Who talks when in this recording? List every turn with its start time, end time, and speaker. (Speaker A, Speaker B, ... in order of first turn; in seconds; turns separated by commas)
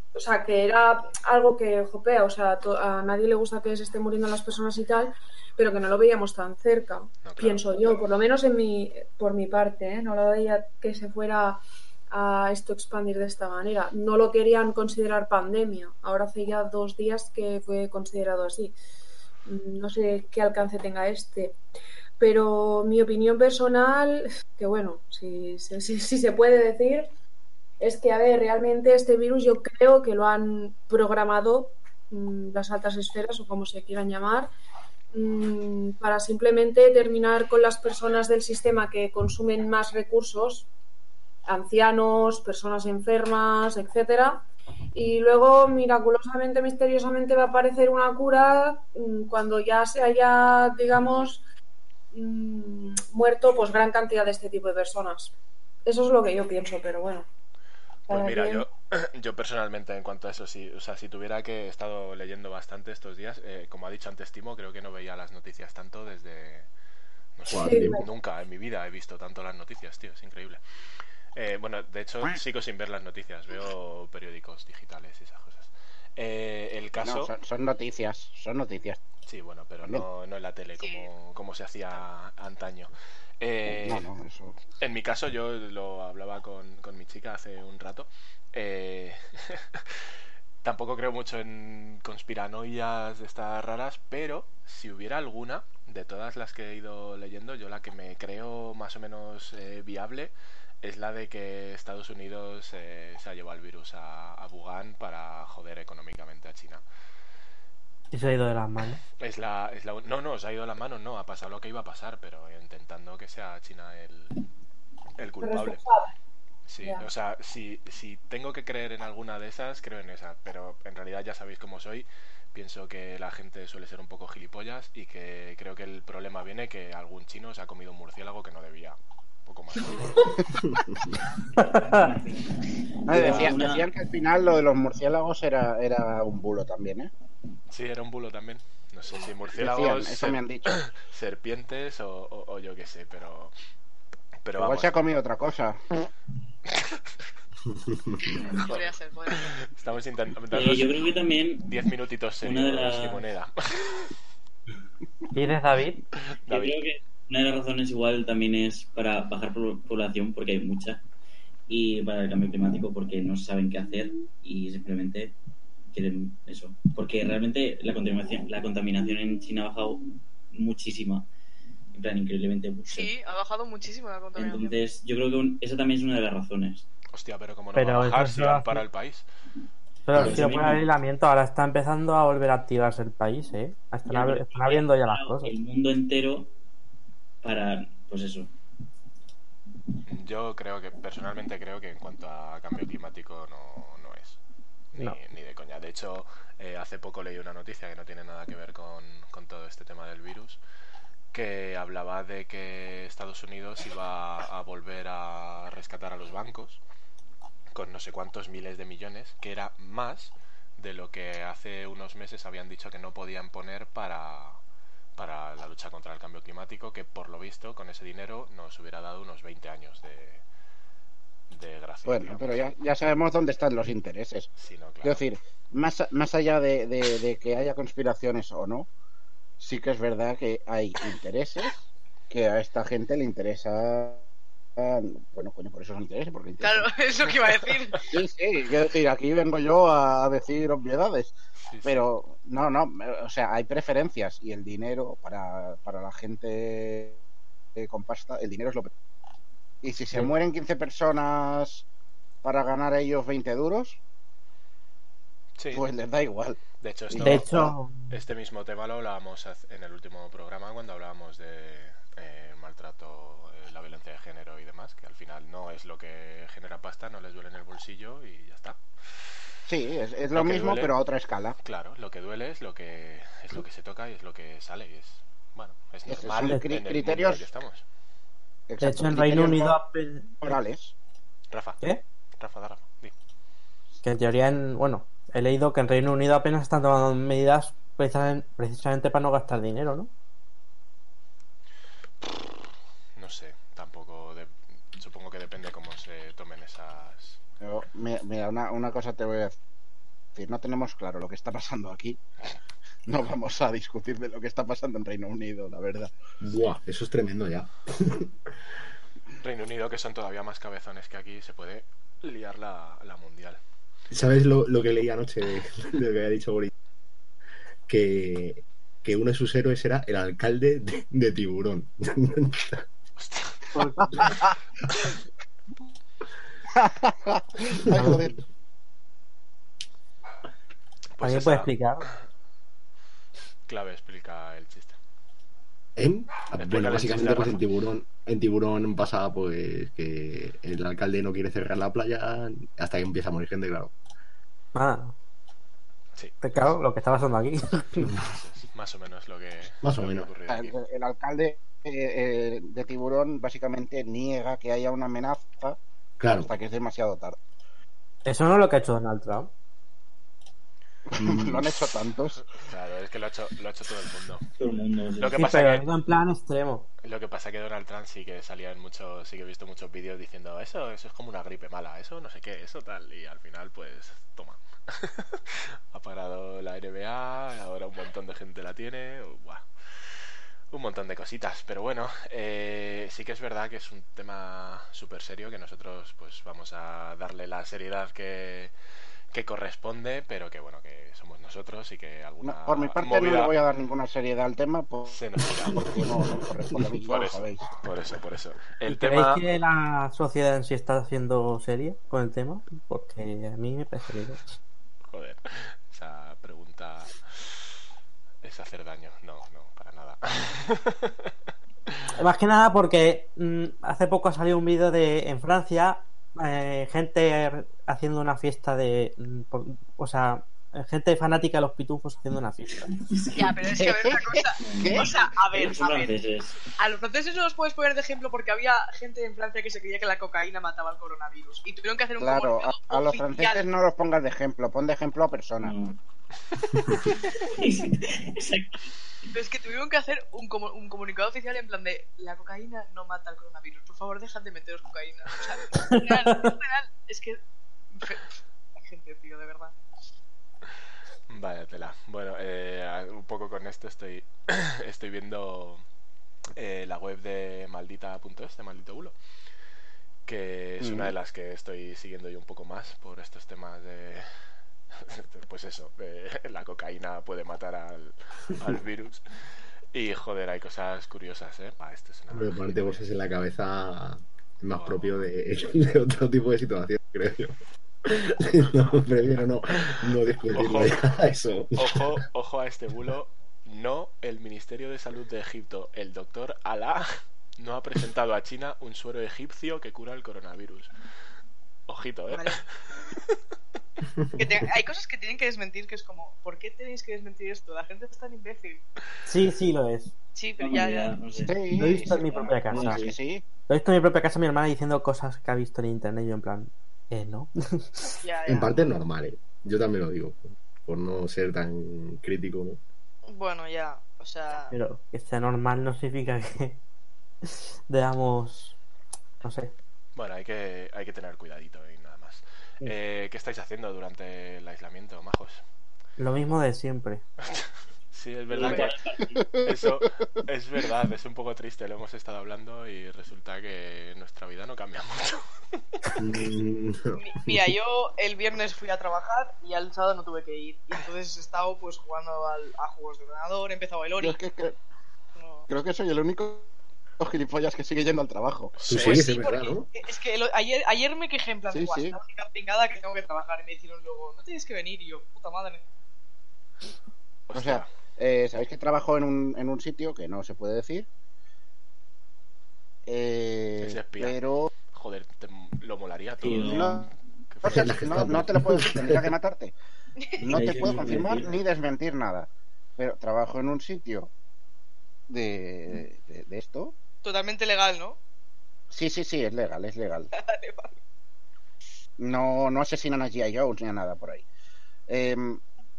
Speaker A: 0.1-18.8, Speaker B: 7.2-8.1, Speaker A: 19.5-21.6, Speaker A: 22.2-27.1, Speaker A: 27.8-34.5, Speaker A: 35.1-40.7, Speaker A: 41.5-51.4, Speaker A: 52.1-55.3, Speaker A: 55.9-57.3, Speaker A: 58.1-58.7, Speaker B: 58.1-66.7, Speaker B: 67.4-70.6, Speaker C: 67.5-68.0, Speaker A: 67.6-68.0, Speaker B: 71.3-77.3, Speaker D: 77.0-79.0, Speaker B: 79.3-84.1, Speaker E: 80.8-81.1, Speaker D: 83.7-84.6, Speaker B: 84.8-90.0, Speaker B: 90.6-106.8, Speaker F: 108.1-109.0, Speaker B: 109.2-114.4, Speaker B: 115.2-115.8, Speaker A: 115.4-116.1, Speaker B: 116.7-130.3, Speaker A: 116.8-117.1, Speaker G: 131.6-132.5, Speaker G: 133.1-133.9, Speaker D: 133.1-137.1, Speaker B: 137.7-143.5, Speaker D: 139.6-140.8, Speaker B: 144.4-144.9, Speaker D: 144.6-145.8, Speaker C: 147.8-148.2, Speaker E: 148.2-149.5, Speaker B: 148.5-151.1, Speaker G: 150.5-151.7, Speaker B: 151.7-154.1, Speaker G: 152.4-153.3, Speaker F: 155.3-156.0, Speaker B: 156.5-156.8, Speaker G: 156.5-161.0, Speaker G: 161.7-165.4, Speaker G: 165.9-171.3, Speaker G: 171.9-173.1, Speaker E: 172.9-174.8, Speaker G: 174.3-176.9, Speaker B: 177.1-179.2, Speaker F: 177.8-178.8, Speaker F: 180.1-185.5, Speaker C: 180.1-180.4, Speaker G: 180.2-180.9, Speaker G: 184.1-186.5, Speaker G: 187.4-188.5, Speaker B: 190.1-194.4, Speaker B: 194.9-200.6, Speaker B: 201.3-206.8, Speaker B: 207.7-214.6, Speaker B: 215.2-220.4, Speaker B: 221.5-222.7, Speaker D: 222.1-224.5, Speaker B: 224.6-225.2, Speaker D: 225.0-228.9, Speaker D: 229.6-234.2, Speaker D: 234.8-236.9, Speaker E: 236.6-238.1, Speaker D: 238.1-247.2, Speaker B: 241.7-242.1, Speaker D: 247.8-248.9, Speaker D: 249.8-251.9, Speaker D: 252.4-254.0, Speaker B: 255.6-255.8, Speaker D: 255.7-256.6, Speaker B: 256.8-268.8, Speaker D: 257.1-257.7, Speaker F: 257.2-258.1, Speaker D: 269.7-271.6, Speaker B: 270.3-270.9, Speaker B: 271.6-277.8, Speaker D: 276.1-277.5, Speaker F: 276.4-276.7, Speaker D: 278.7-279.8, Speaker F: 278.8-280.4, Speaker D: 280.4-280.9, Speaker B: 281.5-281.8, Speaker B: 282.4-283.1, Speaker F: 284.0-290.1, Speaker B: 292.2-292.5, Speaker B: 293.2-297.4, Speaker D: 297.6-299.6, Speaker D: 300.4-302.2, Speaker D: 303.1-306.1, Speaker C: 306.4-308.3, Speaker B: 309.4-313.6, Speaker C: 314.1-316.7, Speaker C: 317.9-322.8, Speaker B: 323.2-323.6, Speaker F: 323.8-324.3, Speaker D: 326.7-328.4, Speaker F: 327.9-328.2, Speaker B: 331.2-331.7, Speaker F: 331.2-332.1, Speaker B: 333.7-335.0, Speaker C: 336.0-343.9, Speaker B: 336.6-337.6, Speaker F: 344.7-345.1, Speaker F: 346.4-348.2, Speaker B: 348.2-350.7, Speaker C: 349.8-350.3, Speaker D: 350.5-355.8, Speaker C: 356.2-356.5, Speaker D: 356.4-357.4, Speaker F: 358.2-359.5, Speaker D: 361.1-362.4, Speaker C: 361.2-361.6, Speaker B: 362.6-364.4, Speaker G: 364.6-365.4, Speaker B: 365.2-365.8, Speaker F: 365.4-366.9, Speaker B: 367.0-379.6, Speaker B: 380.7-388.7, Speaker B: 389.3-393.5, Speaker D: 392.4-397.7, Speaker B: 395.1-395.9, Speaker B: 397.1-399.4, Speaker F: 398.9-404.6, Speaker B: 405.1-407.6, Speaker B: 408.4-411.3, Speaker F: 412.2-422.9, Speaker G: 423.0-423.6, Speaker E: 423.4-426.1, Speaker D: 423.8-425.1, Speaker G: 424.6-426.6, Speaker E: 426.8-433.6, Speaker D: 432.2-435.7, Speaker G: 435.6-436.0, Speaker G: 437.3-438.9, Speaker E: 439.3-447.4, Speaker F: 445.8-446.5, Speaker E: 447.9-449.8, Speaker B: 451.3-455.8, Speaker B: 456.6-459.1, Speaker B: 460.3-464.3, Speaker D: 460.8-461.1, Speaker B: 465.0-469.2, Speaker B: 469.9-473.1, Speaker C: 472.3-482.2, Speaker B: 474.7-475.3, Speaker B: 480.5-481.1, Speaker B: 481.8-490.9, Speaker B: 491.9-492.7, Speaker E: 492.3-492.6, Speaker E: 494.4-498.8, Speaker F: 499.2-500.1, Speaker E: 500.4-501.2, Speaker G: 500.6-503.2, Speaker D: 501.4-503.4, Speaker F: 501.8-503.0, Speaker F: 503.7-508.1, Speaker E: 508.2-508.8, Speaker C: 508.5-512.8, Speaker E: 513.3-514.7, Speaker F: 514.7-516.8, Speaker F: 517.5-518.8, Speaker F: 519.4-519.7, Speaker B: 520.1-525.6, Speaker F: 526.2-527.2, Speaker B: 527.5-529.0, Speaker G: 528.5-529.5, Speaker D: 529.6-530.0, Speaker B: 529.6-535.5, Speaker C: 536.2-537.7, Speaker E: 537.2-544.4, Speaker D: 544.2-544.8, Speaker E: 545.4-545.7, Speaker D: 545.7-548.7, Speaker B: 548.8-549.3, Speaker C: 548.9-549.9, Speaker E: 549.0-555.8, Speaker D: 551.7-552.2, Speaker B: 557.5-557.9, Speaker D: 557.5-561.1, Speaker D: 563.1-564.7, Speaker B: 563.8-564.4, Speaker B: 564.9-567.0, Speaker G: 566.4-567.1, Speaker D: 566.6-567.1, Speaker B: 567.5-567.9, Speaker D: 567.6-569.8, Speaker C: 567.6-569.3, Speaker D: 570.4-574.3, Speaker G: 570.5-571.6, Speaker D: 575.3-577.0, Speaker E: 577.2-578.2, Speaker D: 578.9-580.3, Speaker E: 580.3-581.0, Speaker D: 582.2-584.5, Speaker D: 585.1-585.6